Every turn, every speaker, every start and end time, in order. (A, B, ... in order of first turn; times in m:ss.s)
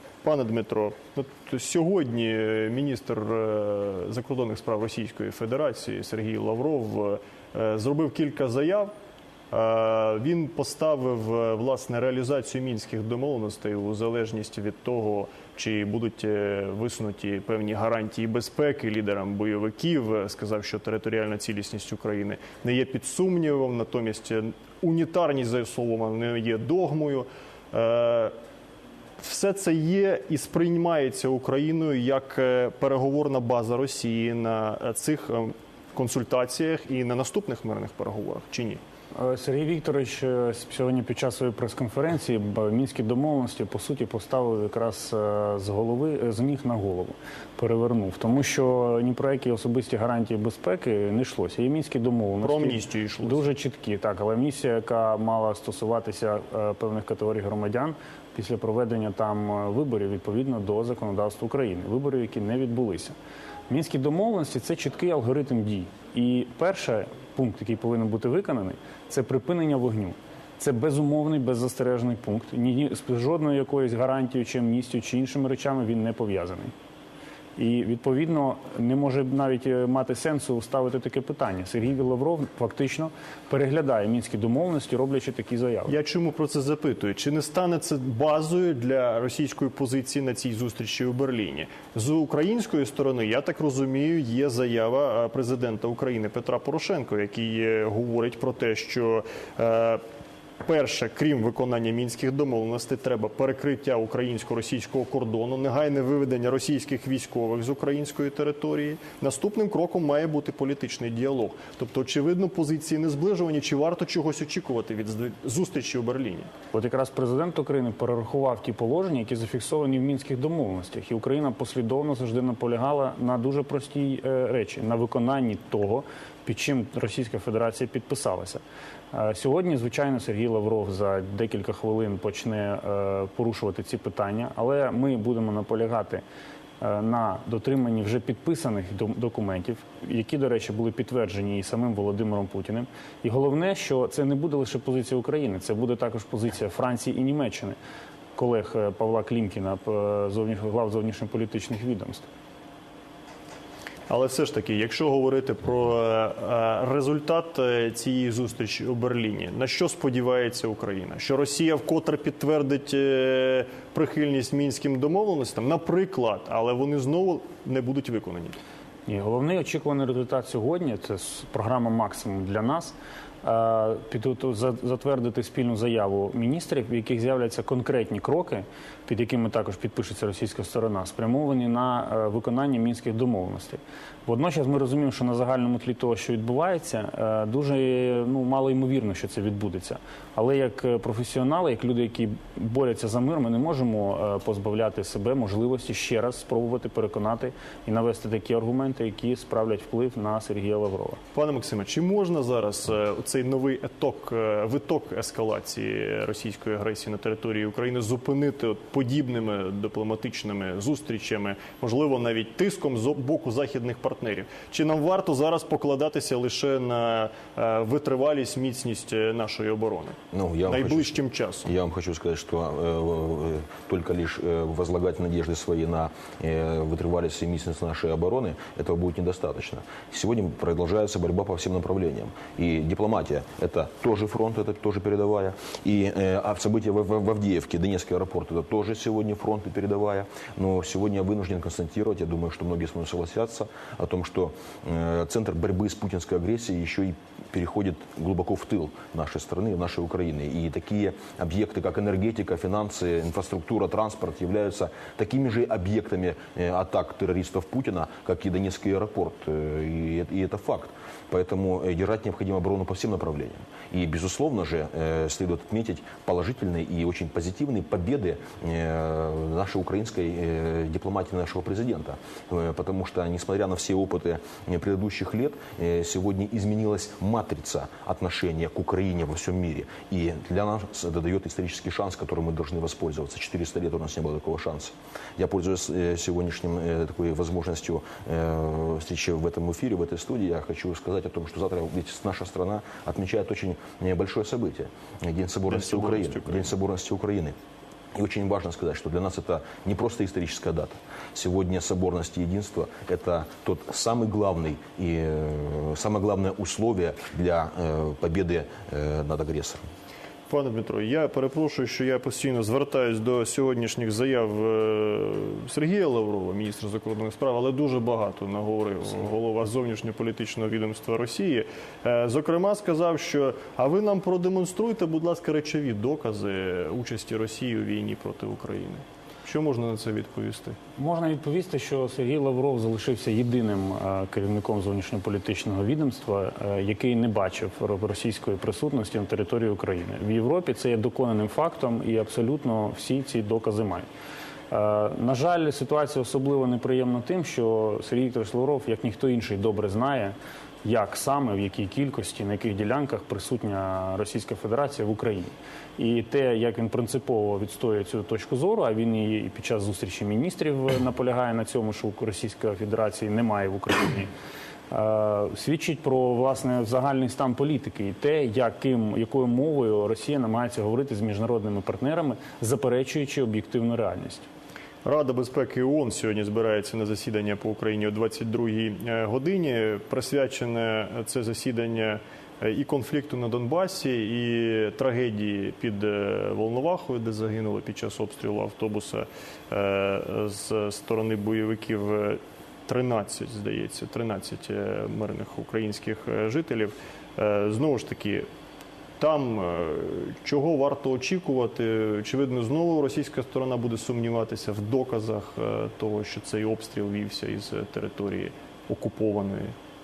0:00.2-0:08.9 A
0:09.5-0:28.3 A
0:29.2-0:38.8 A
0:39.2-1:03.2 B
0:52.4-0:53.5 A
1:03.7-1:16.7 B
1:17.6-1:26.0 B
1:25.9-1:40.0 A
1:40.6-1:56.5 A
1:56.7-2:16.2 B
2:16.8-2:27.8 B
2:28.4-2:32.3 B
2:34.1-2:48.6 A
2:49.1-3:21.2 B
3:21.3-3:41.7 A
3:40.3-4:57.6 C
4:55.7-4:56.7 A
4:58.2-5:09.9 C
5:10.5-5:30.8 A
5:31.0-5:44.1 B
5:44.7-6:04.3 B
6:04.9-6:14.5 B
6:15.0-6:38.5 A
6:39.2-6:49.8 A